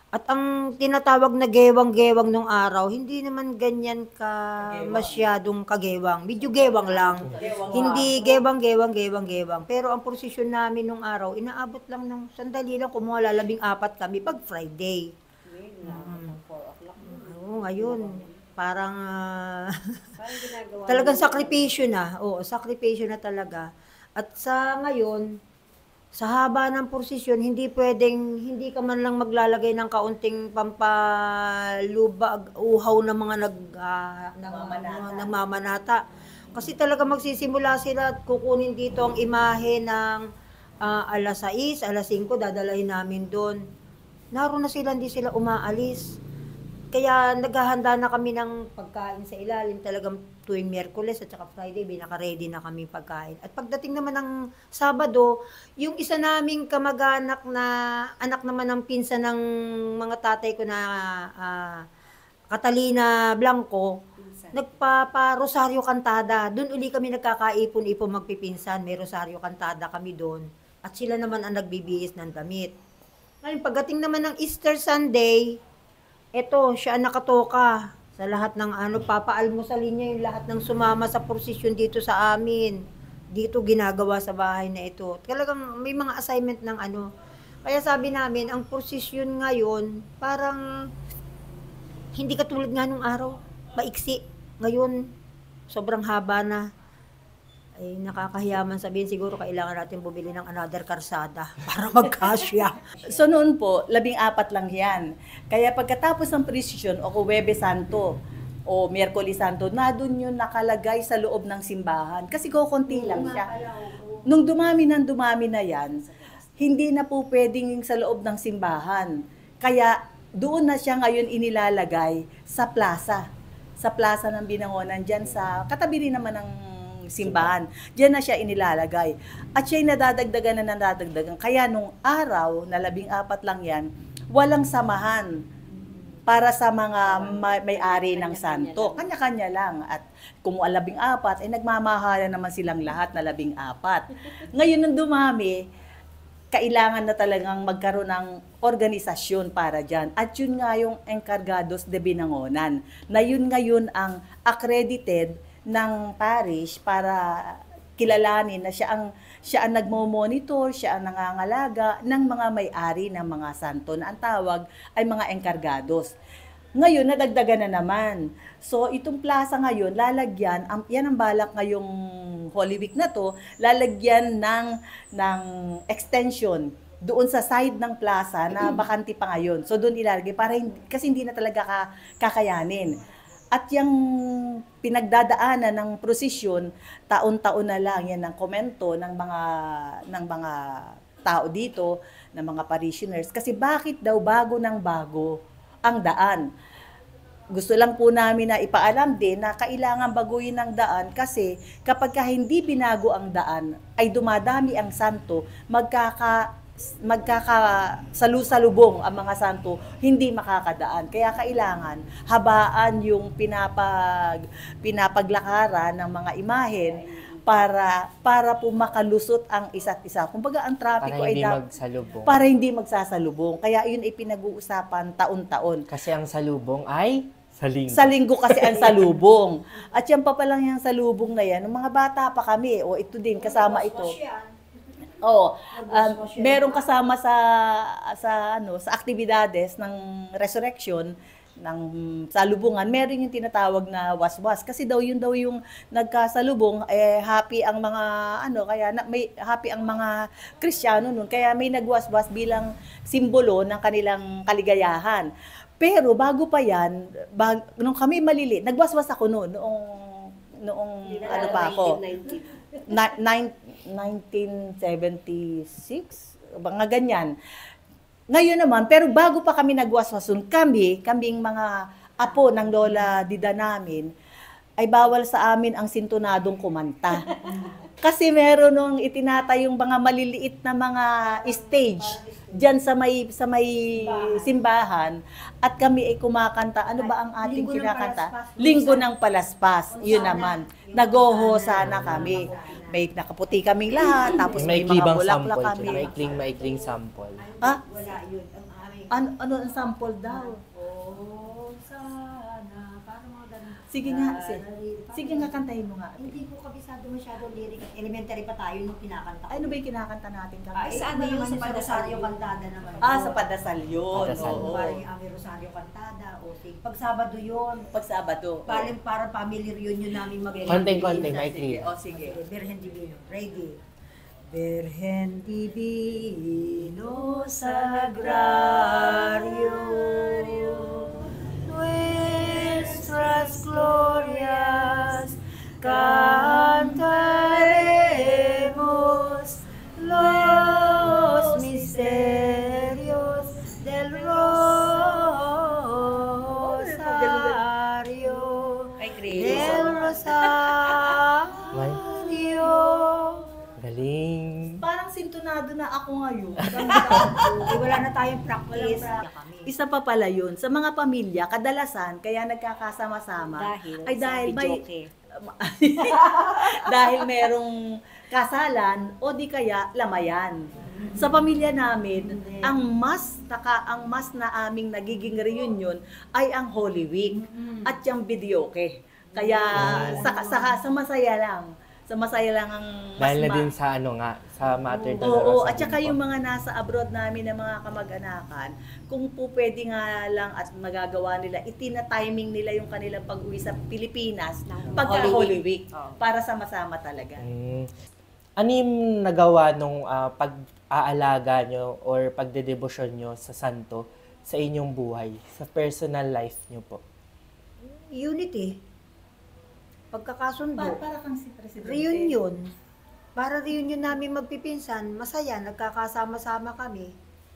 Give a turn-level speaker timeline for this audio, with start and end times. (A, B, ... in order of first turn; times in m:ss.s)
0:00.1-0:15.1 A
0:04.6-0:05.3 B
0:06.4-0:08.4 B
0:07.2-0:08.4 C
0:15.4-0:18.4 C
0:15.8-0:16.4 A
0:17.0-0:20.1 A
0:20.2-0:21.8 C
0:20.9-0:25.4 A
0:26.1-0:36.0 A
0:34.5-0:35.3 B
0:36.5-0:40.3 A
0:40.8-0:43.6 A
0:44.3-0:46.2 A
0:46.9-0:59.4 A
0:59.9-1:01.8 A
1:02.5-1:12.7 A
1:04.2-1:04.7 C
1:13.4-1:15.6 A
1:16.4-1:27.1 A
1:27.6-1:30.6 A
1:32.1-1:35.1 A
1:35.7-1:36.6 A
1:37.8-1:43.0 A
1:43.0-1:48.1 B
1:48.7-1:53.5 B
1:52.9-1:54.3 A
1:54.3-1:56.0 B
1:55.8-1:56.5 C
1:56.6-2:03.2 B
2:03.8-2:06.5 B
2:07.1-2:15.3 B
2:07.2-2:07.5 D
2:16.3-2:25.6 B
2:17.0-2:19.1 C
2:26.5-2:46.1 B
2:46.8-2:51.9 B
2:52.5-3:03.0 B
3:03.5-3:16.4 B
3:17.5-3:26.5 B
3:27.0-3:41.6 B
3:36.7-3:37.5 C
3:41.0-3:42.4 D
3:42.2-3:45.8 B
3:45.9-3:49.0 D
3:47.9-3:54.2 B
3:53.4-3:54.9 A
3:55.2-4:22.0 B
3:55.7-3:56.8 A
4:21.0-4:22.6 C
4:22.8-4:27.3 B
4:28.3-4:34.1 B
4:32.3-4:33.0 A
4:34.8-4:37.3 B
4:37.4-4:37.8 A
4:38.0-4:56.4 B
4:41.2-4:42.7 A
4:43.9-4:44.5 A
4:47.0-4:49.1 A
4:49.9-4:53.0 A
4:51.8-4:52.3 D
4:54.0-4:55.1 A
4:54.6-4:57.4 D
4:55.8-4:59.3 A
4:59.1-5:00.6 B
4:59.8-5:05.6 A
5:03.9-5:04.6 B
5:05.2-5:06.5 B
5:06.2-5:09.8 A
5:09.5-5:11.1 B
5:10.7-5:13.5 A
5:10.8-5:12.3 C
5:13.0-5:15.0 B
5:14.1-5:14.7 D
5:14.2-5:17.9 A
5:17.9-5:18.9 B
5:18.6-5:23.8 A
5:20.6-5:22.4 B
5:20.7-5:21.9 D
5:24.5-5:53.5 A
5:27.1-5:30.3 B
5:32.6-5:34.2 B
5:35.9-5:39.4 B
5:40.1-5:43.4 B
5:44.1-5:45.3 B
5:46.4-5:47.6 B
5:49.0-5:51.0 C
5:49.3-5:50.5 B
5:51.7-5:53.1 B
5:51.7-5:52.0 D
5:53.8-5:54.8 D
5:54.8-5:57.8 B
5:56.7-5:59.7 A
5:56.9-5:57.4 D
5:58.7-6:04.8 B
6:03.5-6:05.1 C
6:05.4-6:23.7 B
6:06.1-6:07.3 C
6:10.9-6:11.2 A
6:12.2-6:12.8 A
6:17.4-6:17.9 A
6:19.3-6:20.8 A
6:19.7-6:20.2 D
6:23.2-6:26.2 D
6:25.1-6:37.5 B
6:34.7-6:36.2 C
6:37.4-6:37.9 D
6:38.6-6:47.0 D
6:47.8-6:48.8 A
6:50.1-6:51.0 A
6:50.8-6:52.4 B
6:51.8-6:52.7 A
6:53.4-6:57.1 A